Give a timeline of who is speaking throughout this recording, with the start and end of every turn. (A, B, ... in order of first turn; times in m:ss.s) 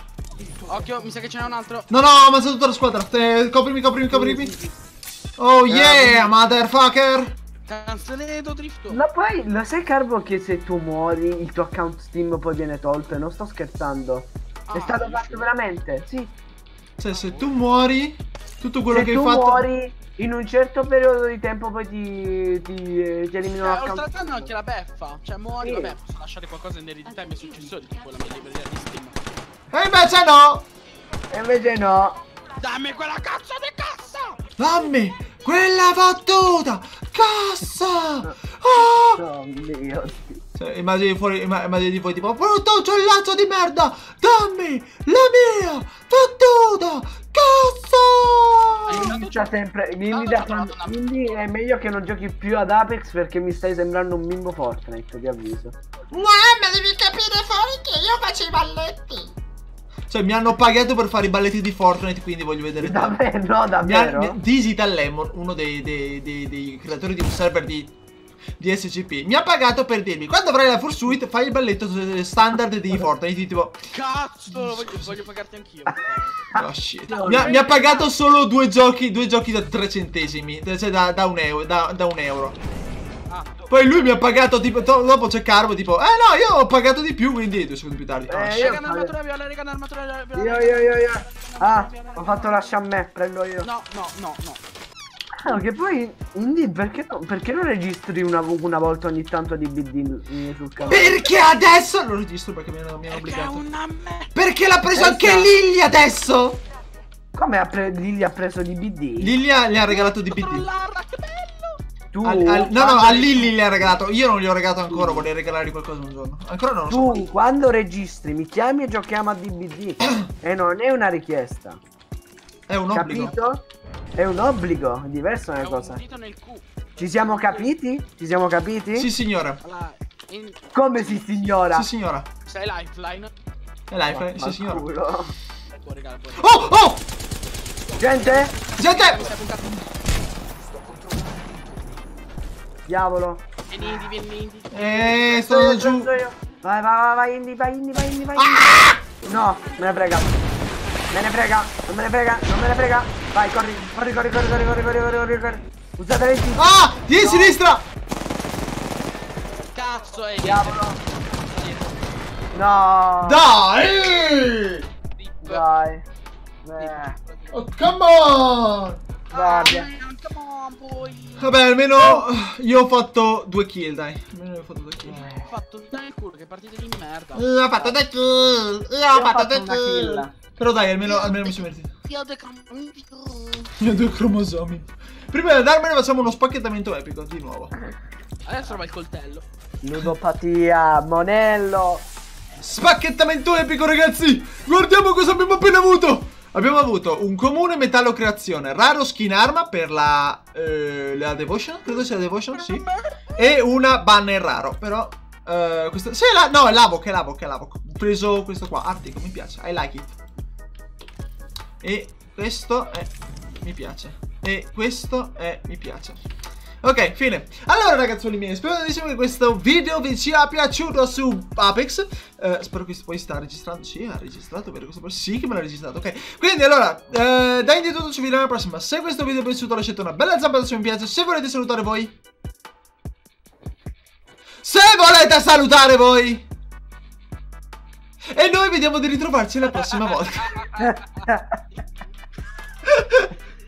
0:00.6-0:01.9 A
0:01.9-0:04.5 B
0:04.1-0:04.7 C
0:05.4-0:07.3 B
0:05.7-0:06.3 C
0:07.6-0:09.0 A
0:08.9-0:16.3 C
0:14.7-0:15.5 A
0:17.0-0:19.6 B
0:17.0-0:17.6 A
0:18.9-0:24.5 C
0:23.6-0:29.3 A
0:25.6-0:25.9 C
0:29.7-0:30.6 B
0:31.3-0:32.2 C
0:32.6-0:34.5 A
0:34.6-0:39.2 B
0:38.2-0:40.4 C
0:40.6-0:49.1 B
0:48.8-0:49.6 A
0:48.9-0:55.8 C
0:50.1-0:51.4 A
0:56.1-0:59.3 B
1:00.1-1:03.2 B
1:02.8-1:04.4 C
1:03.8-1:07.9 B
1:08.6-1:13.8 B
1:13.9-1:16.4 A
1:14.5-1:15.2 B
1:16.4-1:17.6 C
1:16.5-1:22.6 B
1:17.1-1:18.1 A
1:23.3-1:23.7 A
1:23.7-1:28.7 B
1:28.3-1:29.1 C
1:28.5-1:32.7 A
1:30.3-1:33.7 C
1:33.6-1:34.6 A
1:35.4-1:41.2 C
1:40.8-1:41.0 A
1:40.9-1:43.6 B
1:43.1-1:44.3 A
1:44.3-1:46.6 B
1:44.9-1:45.5 C
1:47.3-1:49.3 C
1:49.2-1:50.7 B
1:49.8-1:51.8 A
1:52.1-1:53.9 C
1:52.2-1:57.3 B
1:54.9-1:55.3 C
1:56.9-2:01.8 C
2:00.0-2:00.3 B
2:02.7-2:03.3 B
2:02.9-2:03.6 C
2:03.1-2:03.5 A
2:04.2-2:06.0 C
2:05.5-2:07.7 A
2:07.0-2:09.1 C
2:08.9-2:09.6 B
2:09.6-2:11.6 A
2:10.7-2:11.9 C
2:11.7-2:12.3 B
2:12.4-2:13.3 A
2:13.9-2:14.8 B
2:14.1-2:15.4 C
2:15.7-2:16.9 A
2:16.4-2:17.0 B
2:18.0-2:19.8 A
2:18.0-2:18.5 C
2:18.8-2:19.3 B
2:22.9-2:24.1 C
2:23.7-2:25.6 A
2:24.7-2:26.1 B
2:25.4-2:30.3 C
2:28.4-2:29.0 B
2:31.1-2:36.6 C
2:36.5-2:37.8 B
2:37.2-2:37.6 C
2:39.7-2:42.2 A
2:40.4-2:41.0 C
2:42.5-2:43.4 C
2:43.2-2:44.9 B
2:45.1-2:45.8 A
2:45.4-2:46.0 C
2:46.6-2:47.2 C
2:46.7-2:47.6 A
2:47.5-2:49.0 B
2:49.3-2:51.6 A
2:49.3-2:49.9 C
2:51.4-2:55.2 B
2:55.1-2:55.5 C
2:55.4-2:58.0 A
2:57.3-3:01.9 B
2:59.1-3:00.3 C
3:01.0-3:03.7 A
3:03.8-3:07.7 B
3:08.4-3:09.4 A
3:09.8-3:12.0 C
3:12.6-3:22.8 B
3:21.8-3:23.6 A
3:23.4-3:30.1 B
3:31.8-3:36.2 B
3:36.8-3:52.1 B
3:54.6-3:56.5 B
3:58.3-4:00.5 B
3:59.6-4:01.8 A
4:00.8-4:01.5 C
4:02.8-4:03.3 B